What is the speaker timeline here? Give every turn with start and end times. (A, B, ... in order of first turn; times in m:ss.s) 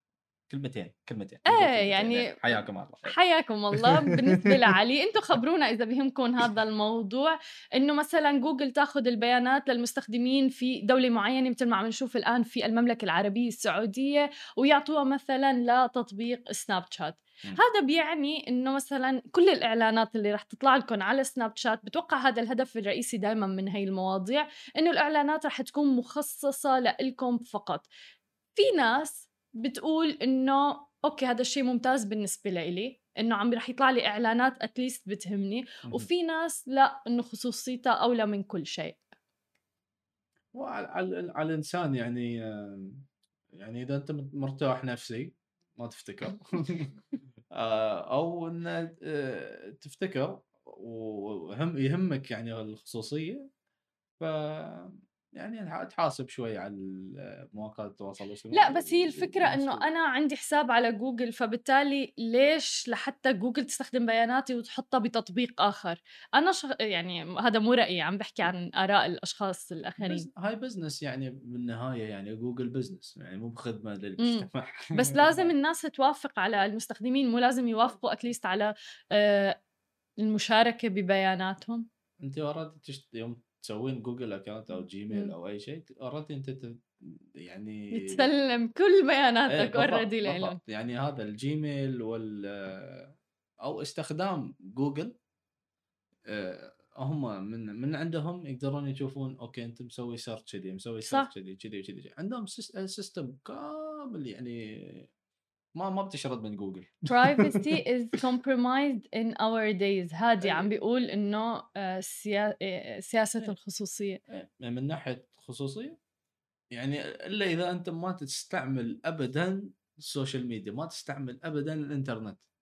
0:00.5-0:03.2 A
0:01.5-0:27.9 B
0:03.7-0:04.6 A
0:28.6-0:39.0 B
0:40.5-0:47.0 A
0:47.5-0:53.5 A
0:54.2-0:59.9 A
0:58.5-1:10.3 B
1:10.0-1:15.5 A
1:14.2-1:19.6 B
1:20.2-1:21.9 B
1:22.2-1:28.3 A
1:27.9-1:30.6 B
1:29.5-1:35.2 A
1:36.3-1:45.1 A
1:41.0-1:41.3 B
1:45.8-1:47.7 A
1:47.1-1:54.2 B
1:50.4-1:50.7 A
1:54.3-1:56.0 A
1:56.7-2:02.4 A